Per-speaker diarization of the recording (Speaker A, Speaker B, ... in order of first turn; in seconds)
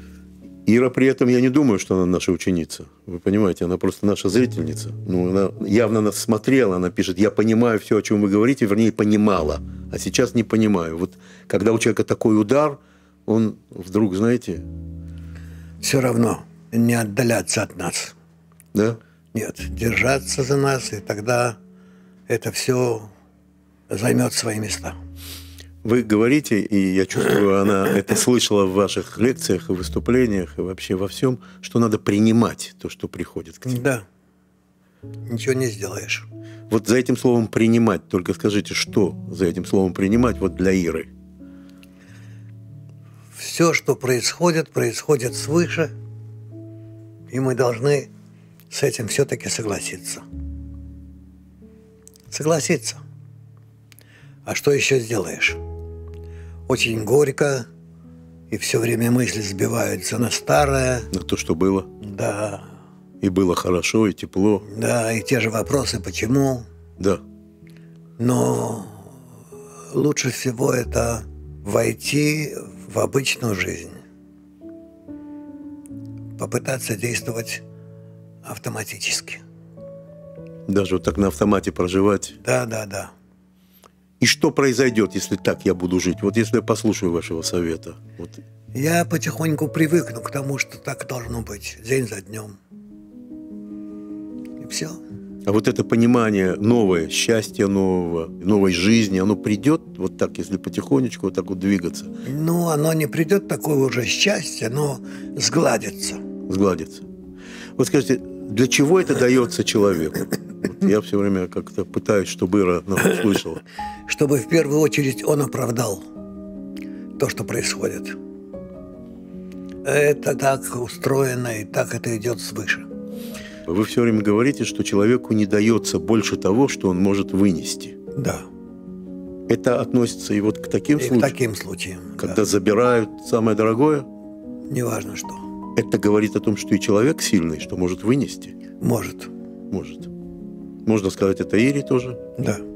Speaker A: 0.7-14.7, 18.7-19.0, 25.8-33.8, 36.7-41.1, 61.1-61.9, 63.2-64.7, 80.7-82.4, 84.2-88.4, 95.5-102.1, 106.5-107.1, 107.8-113.6, 123.7-127.9, 129.5-131.4, 132.2-134.1, 135.8-138.5, 139.7-140.1, 140.8-142.2
Speaker B: 15.8-18.2, 19.3-21.6, 22.3-23.1, 23.9-25.0, 33.7-34.0, 35.3-36.3, 43.4-45.9, 47.3-48.1, 48.7-50.2, 52.3-53.0, 54.5-55.6, 56.7-57.7, 58.5-61.1, 62.0-62.7, 64.7-66.7, 68.2-69.1, 69.9-74.0, 76.4-77.6, 78.4-79.4, 82.4-83.1, 88.7-92.6, 94.6-95.0, 102.3-106.2, 114.1-116.0, 117.2-118.2, 119.8-122.9, 128.2-128.5, 131.0-132.4, 134.7-135.4, 138.8-139.3, 142.4-142.6